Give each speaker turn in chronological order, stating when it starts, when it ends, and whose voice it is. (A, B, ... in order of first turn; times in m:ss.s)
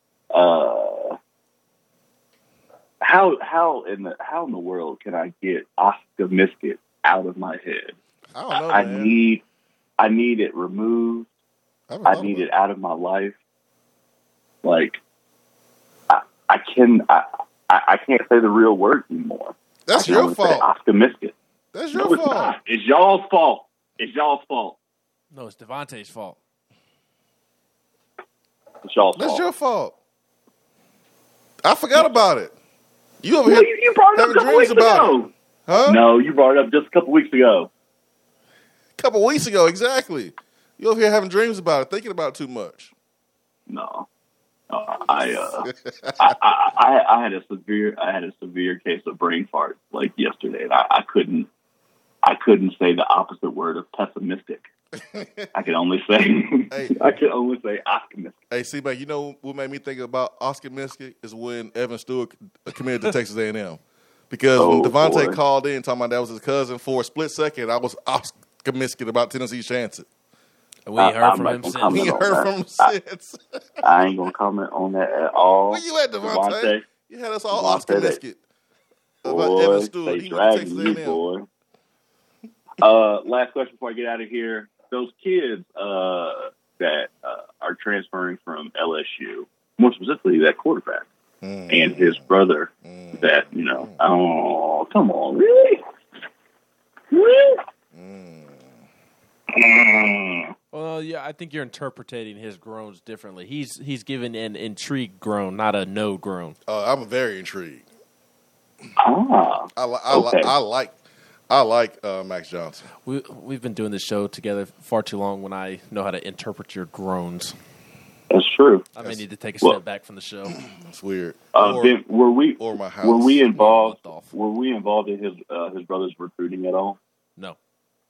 0:00.3-0:01.2 A
0:03.0-0:08.0 A
0:08.4-0:09.2 B
0:08.5-0:09.4 A
0:10.0-0:11.3 A
0:11.9-0:12.5 B
0:12.0-0:13.4 A
0:14.6-0:15.0 A
0:16.1-0:21.4 A
0:19.9-0:20.7 B
0:21.7-0:22.6 B
0:21.9-0:24.8 A
0:25.3-0:26.4 C
0:28.8-0:29.5 A
0:29.2-0:30.0 B
0:31.6-0:32.5 B
0:33.2-0:36.0 B
0:33.4-0:37.7 A
0:39.0-0:42.9 B
0:43.7-0:44.1 A
0:44.7-0:51.5 A
0:45.6-0:46.3 B
0:52.2-0:54.6 A
0:55.1-0:55.5 B
0:55.5-0:58.4 A
0:56.7-0:57.1 B
0:58.5-1:10.1 B
1:04.6-1:05.4 A
1:10.9-1:12.2 C
1:11.0-1:12.9 A
1:11.8-1:13.6 B
1:13.8-1:16.9 A
1:15.7-1:18.4 B
1:17.5-1:18.2 A
1:19.2-1:21.2 B
1:19.2-1:21.5 A
1:22.8-1:31.1 A
1:31.4-1:32.3 B
1:31.7-1:35.8 A
1:32.8-1:34.0 B
1:37.1-1:37.6 A
1:37.9-1:38.7 B
1:39.5-1:40.5 A
1:40.7-1:46.6 C
1:46.7-1:47.9 B
1:49.0-1:50.5 A
1:49.7-1:51.0 B
1:51.5-1:52.9 B
1:53.0-1:57.6 C
1:58.3-1:58.9 A
1:59.0-2:00.6 C
2:00.7-2:02.0 B
2:01.6-2:07.0 A
2:02.6-2:03.5 B
2:03.6-2:04.3 C